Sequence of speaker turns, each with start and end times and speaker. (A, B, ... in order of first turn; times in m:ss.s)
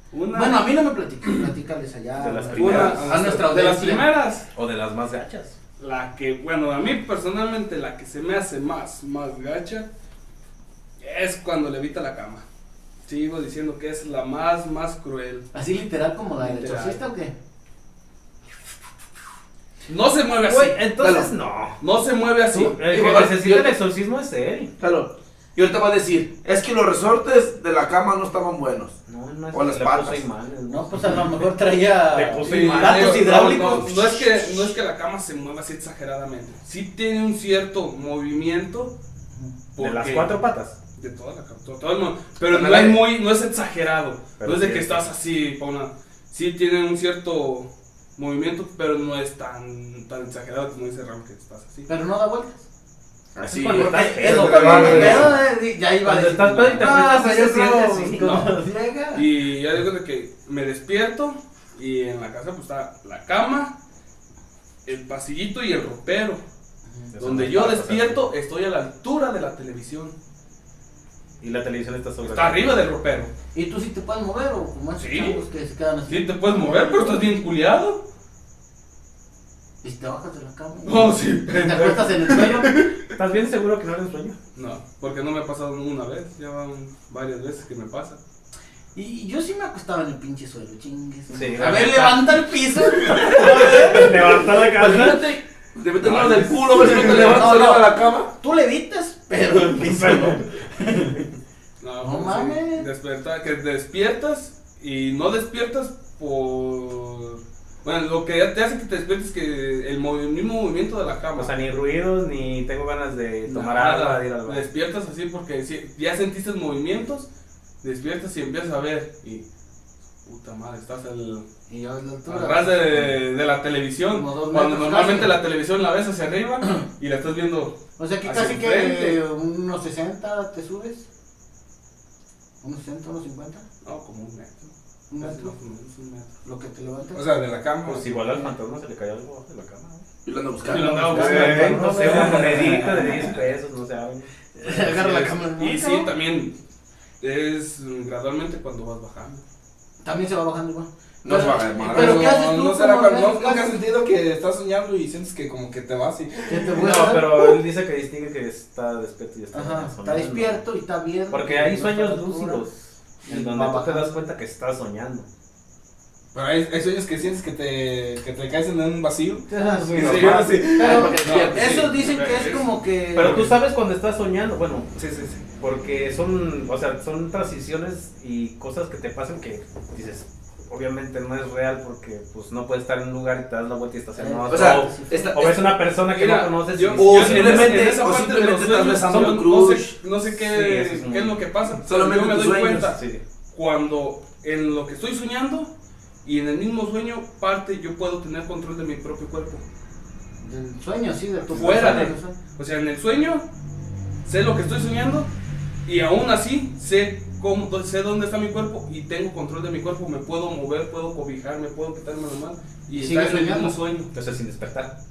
0:00.1-0:01.3 A
0:00.3-0:04.1 B
0:02.2-0:03.1 C
0:02.5-0:04.5 A
0:02.6-0:03.5 D
0:04.5-0:05.6 C
0:05.8-0:09.9 A
0:11.0-0:12.4 A
0:13.0-0:15.5 A
0:15.5-0:17.3 B
0:16.4-0:17.0 A
0:19.9-0:20.9 A
0:20.4-0:21.8 C
0:21.0-0:21.3 E
0:21.8-0:23.4 A
0:22.5-0:24.7 C
0:22.8-0:23.8 E
0:24.8-0:29.0 E
0:29.1-0:31.5 C
0:29.5-0:30.2 E
0:30.7-0:34.1 B
0:32.1-0:33.8 C
0:32.4-0:38.9 A
0:39.8-0:40.4 A
0:39.8-0:40.8 C
0:41.0-0:51.9 A
0:42.5-0:43.0 E
0:44.4-0:45.1 C
0:51.9-0:52.6 B
0:53.3-0:55.1 E
0:53.4-0:55.4 C
0:53.7-0:59.3 B
0:54.2-0:55.3 D
0:56.0-0:58.5 C
0:58.2-0:58.5 A
0:59.1-1:03.7 A
1:04.8-1:06.4 A
1:07.1-1:08.3 C
1:07.2-1:10.2 A
1:11.4-1:12.8 C
1:12.2-1:13.3 A
1:13.5-1:17.2 B
1:15.0-1:15.4 A
1:16.1-1:18.0 A
1:19.8-1:22.8 B
1:20.8-1:23.0 A
1:23.0-1:24.4 C
1:24.5-1:28.2 A
1:28.9-1:34.5 B
1:31.3-1:35.3 C
1:31.5-1:31.9 A
1:34.6-1:38.3 E
1:36.0-1:37.4 A
1:36.9-1:41.2 B
1:40.1-1:40.3 C
1:41.8-1:51.5 A
1:42.0-1:42.9 B
1:51.4-1:54.6 C
1:53.5-1:57.3 A
1:57.8-1:59.4 A
2:00.2-2:01.4 A
2:01.7-2:03.1 B
2:02.2-2:09.2 A
2:04.1-2:05.4 B
2:08.0-2:11.0 B
2:12.6-2:13.6 B
2:13.8-2:16.3 A
2:15.1-2:15.5 B
2:16.4-2:17.3 B
2:17.1-2:18.2 D
2:17.8-2:20.0 C
2:18.2-2:18.5 B
2:20.2-2:21.2 E
2:20.6-2:23.1 A
2:20.7-2:23.1 B
2:21.0-2:24.9 C
2:21.2-2:22.9 D
2:24.6-2:26.1 B
2:24.9-2:26.5 A
2:27.2-2:29.4 A
2:30.0-2:33.7 B
2:31.2-2:32.4 E
2:31.3-2:36.5 D
2:36.5-2:37.6 B
2:36.8-2:40.6 C
2:39.5-2:42.6 B
2:41.3-2:45.3 C
2:43.2-2:44.1 B
2:46.3-2:51.4 D
2:49.5-2:53.5 B
2:49.6-2:50.7 C
2:50.0-2:50.6 A
2:50.8-2:51.9 E
2:51.2-2:52.8 A
2:53.1-2:54.9 C
2:54.9-2:55.4 D
2:55.6-3:08.0 C
3:04.1-3:05.4 B
3:04.5-3:05.8 E
3:06.0-3:13.0 A
3:06.9-3:09.9 E
3:09.0-3:09.4 C
3:10.2-3:11.4 C
3:11.8-3:12.9 E
3:12.8-3:13.2 C
3:13.5-3:15.7 A
3:16.2-3:19.6 A
3:20.4-3:22.4 B
3:21.5-3:23.4 A
3:21.5-3:22.1 C
3:24.2-3:25.3 A
3:25.8-3:34.1 A
3:32.9-3:33.8 B
3:34.1-3:34.9 C